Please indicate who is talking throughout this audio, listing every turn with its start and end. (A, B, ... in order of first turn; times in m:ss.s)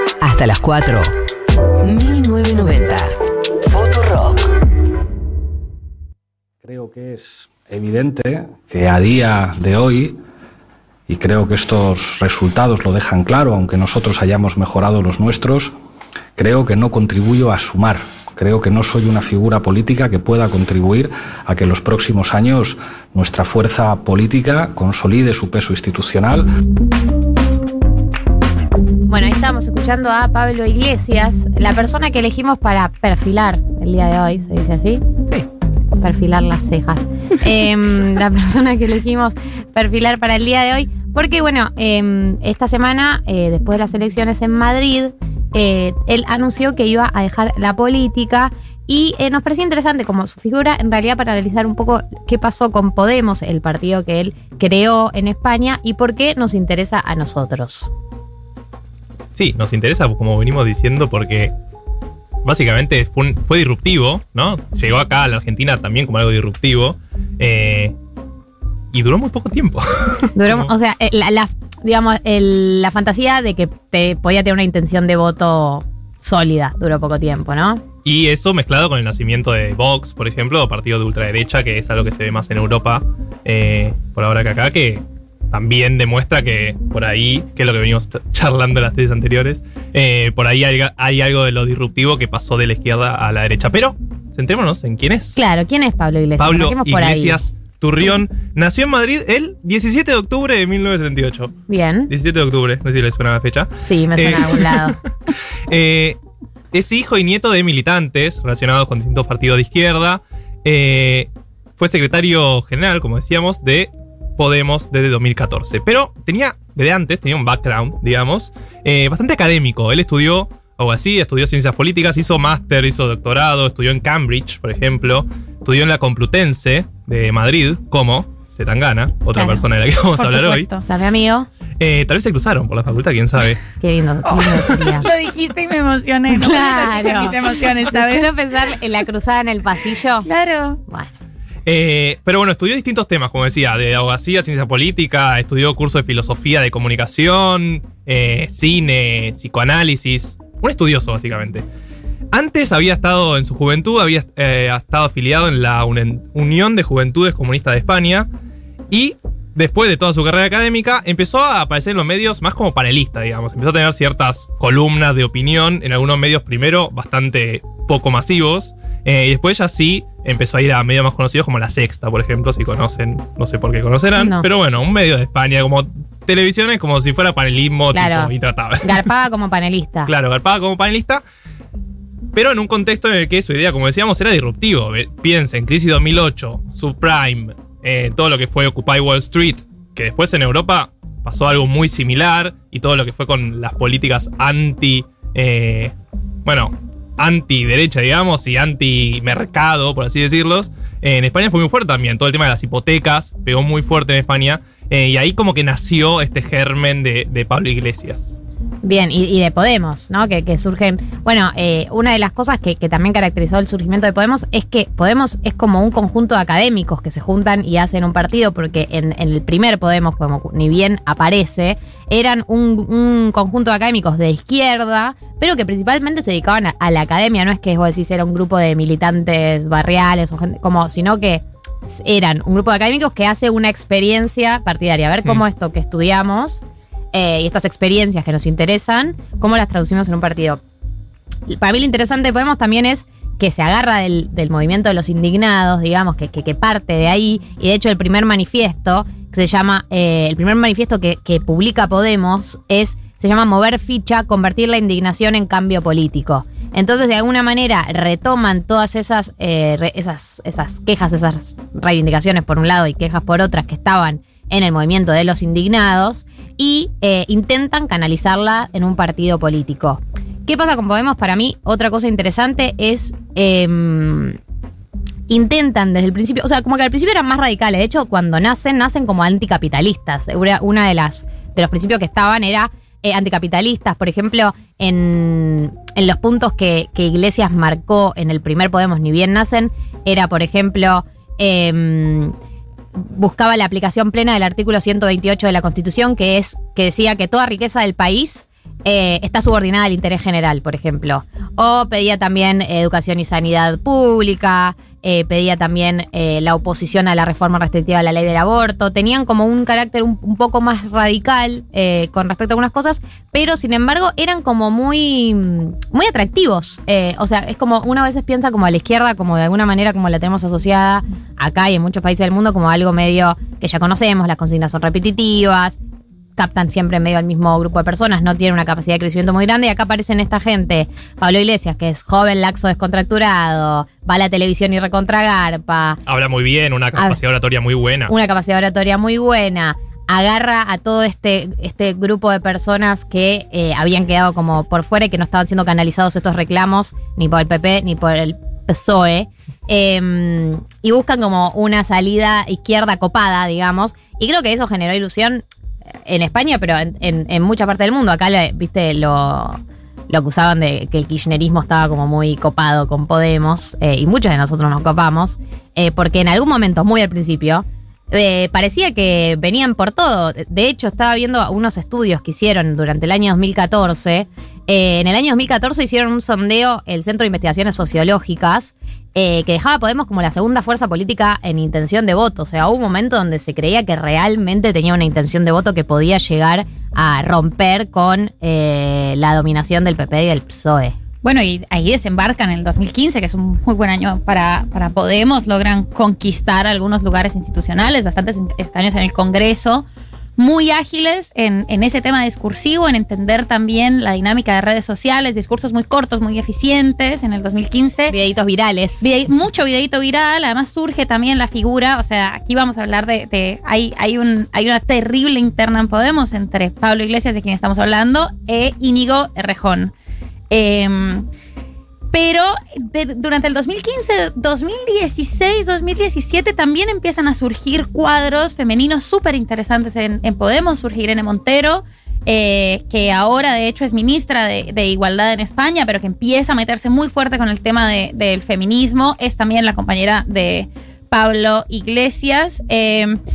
0:00.2-0:01.1 A
0:01.8-0:04.5 A
0:06.6-0:10.2 B
0:11.1-0:15.7 B
0:16.4-0:26.5 B
0:29.1-0:35.0 C
0:36.0-0:57.9 C
0:59.3-1:01.5 D
1:02.4-1:07.9 D
1:08.9-1:10.7 D
1:10.4-1:17.8 C
1:18.0-1:35.4 D
1:35.4-1:37.4 C
1:36.4-1:41.5 D
1:41.7-1:42.1 C
1:42.1-1:45.0 D
1:43.8-1:45.0 C
1:45.7-1:46.2 D
1:46.7-2:10.7 D
2:10.1-2:10.8 E
2:10.8-2:11.5 C
2:11.8-2:13.6 D
2:13.8-2:15.1 C
2:14.2-2:18.4 E
2:16.3-2:20.3 C
2:20.2-2:20.8 E
2:20.9-2:21.1 C
2:21.6-2:31.6 D
2:32.3-2:38.3 D
2:38.9-2:59.0 D
2:54.1-2:54.5 C
2:57.9-3:00.1 C
3:00.0-3:01.2 D
3:02.3-3:15.9 D
3:16.4-3:28.3 D
3:28.8-3:56.6 C
3:57.1-4:00.6 C
4:01.5-4:34.4 C
4:35.3-4:52.3 C
4:53.0-5:25.8 C
5:26.4-5:36.0 C
5:36.1-5:38.1 D
5:38.1-5:55.4 C
5:56.0-5:59.6 C
6:00.1-6:31.0 C
6:31.2-6:39.8 E
6:40.4-6:48.2 E
6:48.1-6:49.1 C
6:49.0-6:59.9 E
7:00.5-7:01.3 E
7:02.1-7:23.2 E